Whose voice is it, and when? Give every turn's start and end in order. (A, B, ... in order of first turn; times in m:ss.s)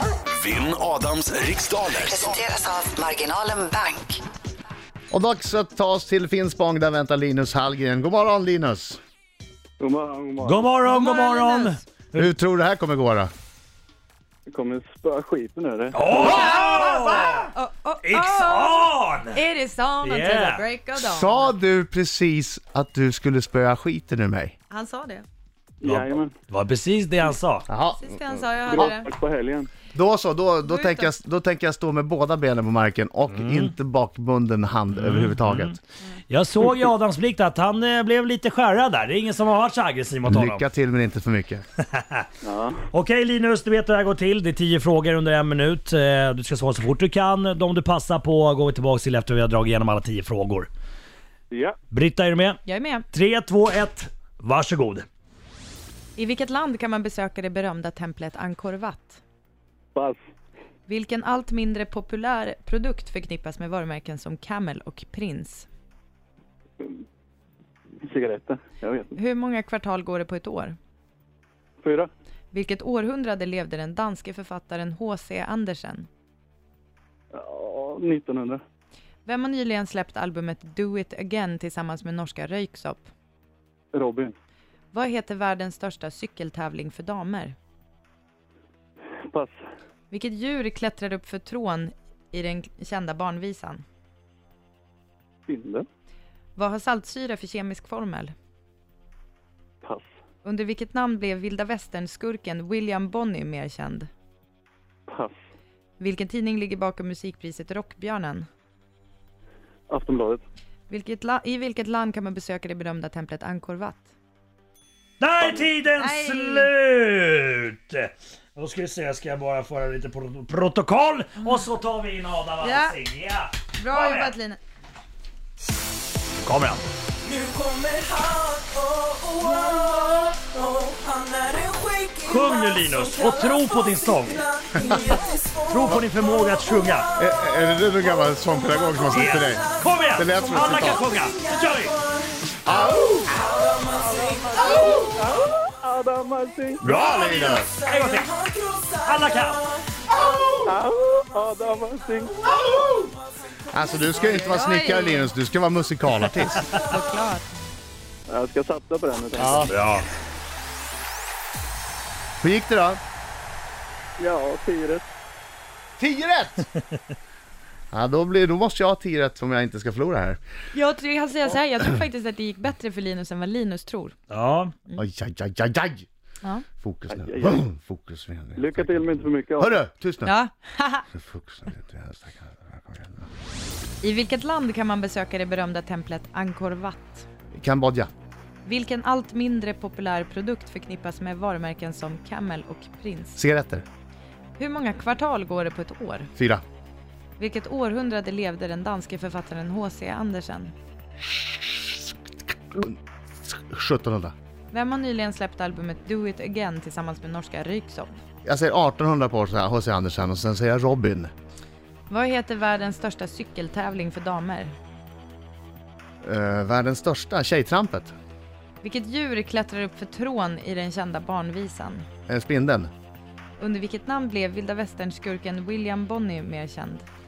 0:00.3-0:02.3 A
0:02.0-0:04.2 B
0:05.1-0:09.0 C
0:09.8-0:10.7 D
0:10.4-0:12.3 E
0:10.8-0:11.8 F
0:12.1-0:13.3 C
0:14.5-0:16.5 D
0:15.9-0:17.5 E
0:16.2-0:21.5 F
0:18.0-0:19.4 E
0:20.0-0:20.6 E
0:20.9-0:24.5 C
0:24.7-0:25.2 F
0:25.8-0:26.3 D
0:25.8-0:27.7 E
0:27.7-0:28.1 C
0:28.0-0:29.1 F
0:28.7-0:29.7 D
0:29.9-0:35.8 C
0:30.6-0:31.1 F
0:33.3-0:33.7 E
0:34.9-0:35.8 E
0:36.3-0:40.7 E
0:40.2-0:41.6 C
0:41.9-0:42.2 E
0:42.4-0:42.8 D
0:42.9-0:50.7 E
0:51.5-0:51.8 D
0:51.9-0:55.0 E
0:52.6-0:53.1 F
0:56.2-0:59.2 F
1:00.9-1:05.7 F
1:08.0-1:09.2 D
1:09.2-1:10.8 F
1:11.8-1:12.1 D
1:12.5-1:16.1 F
1:17.3-1:18.6 D
1:19.2-1:23.1 F
1:23.9-1:24.3 D
1:24.9-1:27.6 F
1:29.3-1:29.6 D
1:30.1-1:33.8 F
1:35.5-1:35.8 D
1:36.6-1:38.3 F
1:39.8-1:40.1 D
1:40.4-1:44.1 F
1:45.1-1:45.3 D
1:46.0-1:48.5 F
1:49.9-1:50.4 D
1:50.9-1:54.1 F
1:55.2-2:04.3 E
1:56.0-1:56.7 F
2:01.4-2:01.6 F
2:02.6-2:03.0 F
2:03.8-2:04.6 F
2:06.4-2:06.8 E
2:07.3-2:12.2 G
2:12.2-2:14.4 E
2:14.7-2:15.5 G
2:15.6-2:17.1 E
2:17.2-2:21.0 C
2:19.1-2:22.0 E
2:22.6-2:23.3 C
2:23.5-2:24.8 G
2:23.8-2:26.8 D
2:26.8-2:28.3 E
2:26.8-2:27.7 C
2:27.9-2:29.0 G
2:29.0-2:29.6 E
2:29.9-2:30.6 G
2:30.6-2:32.4 D
2:33.7-2:36.8 C
2:34.1-2:35.3 F
2:36.7-2:37.5 F
2:38.3-2:39.9 D
2:39.4-2:39.7 C
2:39.6-2:40.1 E
2:42.4-2:43.0 C
2:44.2-2:45.0 D
2:46.0-2:46.7 C
2:47.9-2:50.4 C
2:50.7-2:54.1 F
2:54.3-2:54.7 E
2:55.0-2:56.0 C
2:56.8-3:00.3 C
2:57.1-2:57.6 D
2:58.6-2:59.8 D
3:00.2-3:01.1 F
3:01.1-3:03.3 C
3:04.0-3:07.2 F
3:07.5-3:08.1 C
3:08.6-3:13.4 F
3:13.4-3:13.8 C
3:14.6-3:16.3 F
3:16.4-3:16.6 C
3:17.4-3:20.7 F
3:22.7-3:24.3 C
3:24.7-3:28.1 F
3:28.4-3:31.3 C
3:32.1-3:34.7 F
3:36.2-3:38.1 C
3:38.8-3:42.0 F
3:42.3-3:42.9 C
3:43.6-3:47.0 F